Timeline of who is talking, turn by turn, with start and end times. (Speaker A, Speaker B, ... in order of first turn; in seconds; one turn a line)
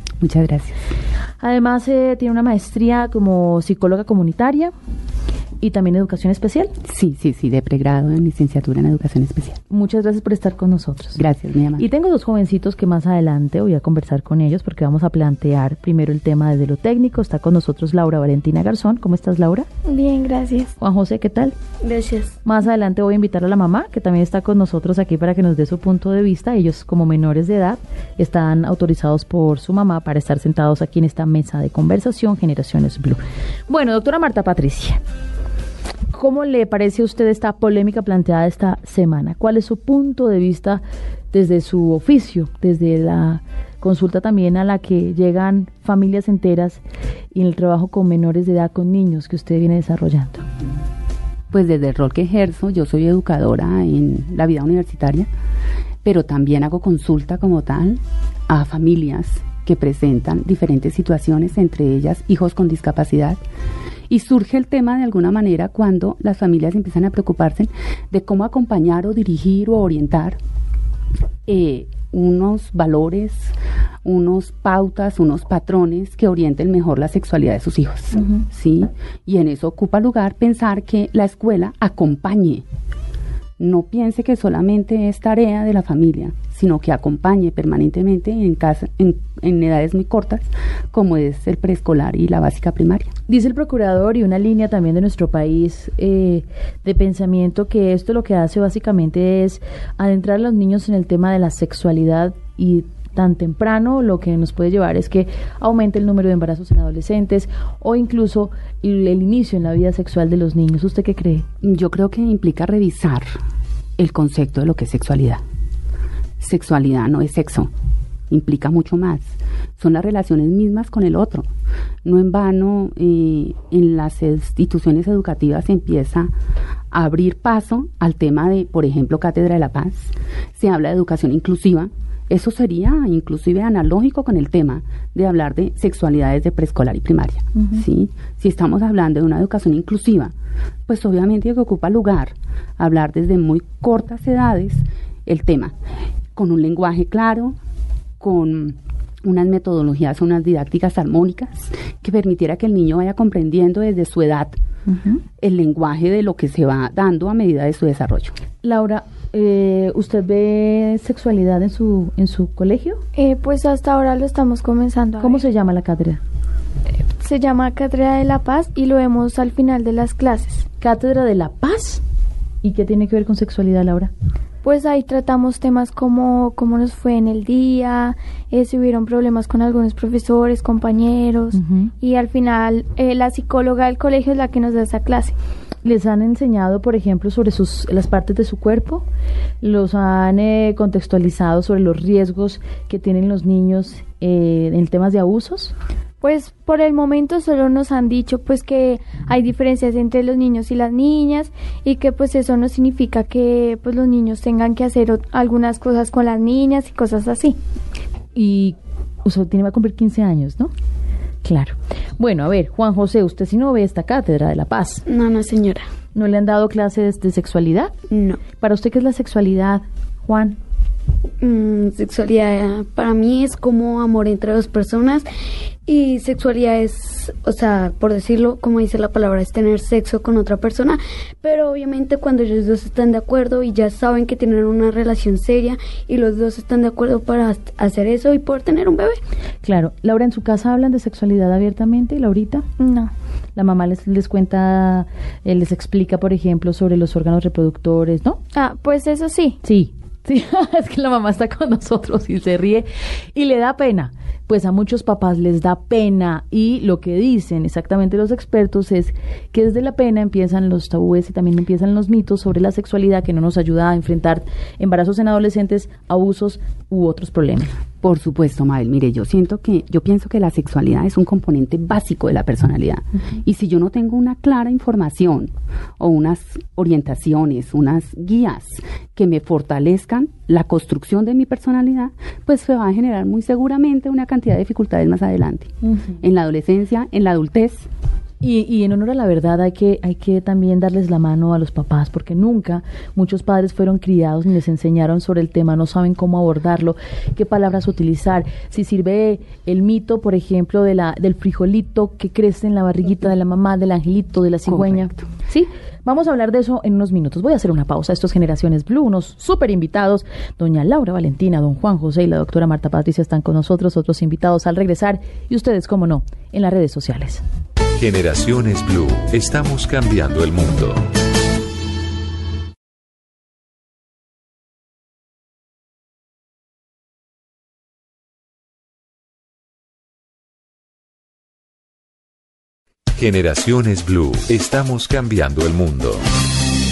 Speaker A: 0.2-0.8
Speaker B: 1.4-4.7
Speaker B: 5.6-6.7
Speaker A: 6.8-9.6
Speaker B: 9.7-11.2
Speaker A: 11.2-11.8
Speaker B: 11.8-19.7
Speaker C: 19.9-20.7
Speaker B: 20.8-21.6
Speaker D: 21.8-22.4
Speaker B: 22.4-35.0
Speaker B: 36.1-46.8
Speaker B: 47.3-50.4
Speaker A: 51.5-55.3
Speaker A: 56.0-63.4
Speaker A: 64.1-70.4
Speaker A: 71.5-73.5
Speaker A: 74.0-82.6
Speaker B: 78.1-78.4
Speaker A: 83.6-93.1
Speaker B: 93.3-111.5
Speaker A: 111.6-113.4
Speaker A: 114.0-115.4
Speaker A: 116.4-117.7
Speaker A: 118.3-121.5
Speaker A: 122.0-126.3
Speaker A: 126.9-140.3
Speaker B: 137.6-137.8
Speaker A: 140.9-145.7
Speaker A: 146.3-147.6
Speaker A: 148.2-154.6
Speaker B: 154.9-155.2
Speaker A: 155.4-158.3
Speaker B: 158.6-163.0
Speaker C: 163.2-165.4
Speaker B: 165.2-166.2
Speaker C: 167.2-170.7
Speaker B: 170.8-172.0
Speaker B: 172.6-174.1
Speaker C: 174.6-185.3
Speaker B: 181.5-181.9
Speaker B: 185.8-189.0
Speaker B: 189.6-195.7
Speaker C: 196.2-207.6
Speaker B: 208.3-210.7
Speaker B: 211.4-215.0
Speaker D: 215.1-215.8
Speaker B: 216.2-217.9
Speaker D: 218.1-218.4
Speaker B: 218.6-220.6
Speaker D: 221.4-225.3
Speaker D: 225.8-239.2
Speaker B: 239.6-242.7
Speaker C: 242.8-243.1
Speaker B: 243.6-248.4
Speaker C: 248.5-249.6
Speaker B: 249.6-267.7
Speaker A: 268.0-287.9
Speaker B: 288.4-317.4
Speaker A: 304.7-305.3
Speaker E: 318.0-321.1
Speaker E: 333.1-336.2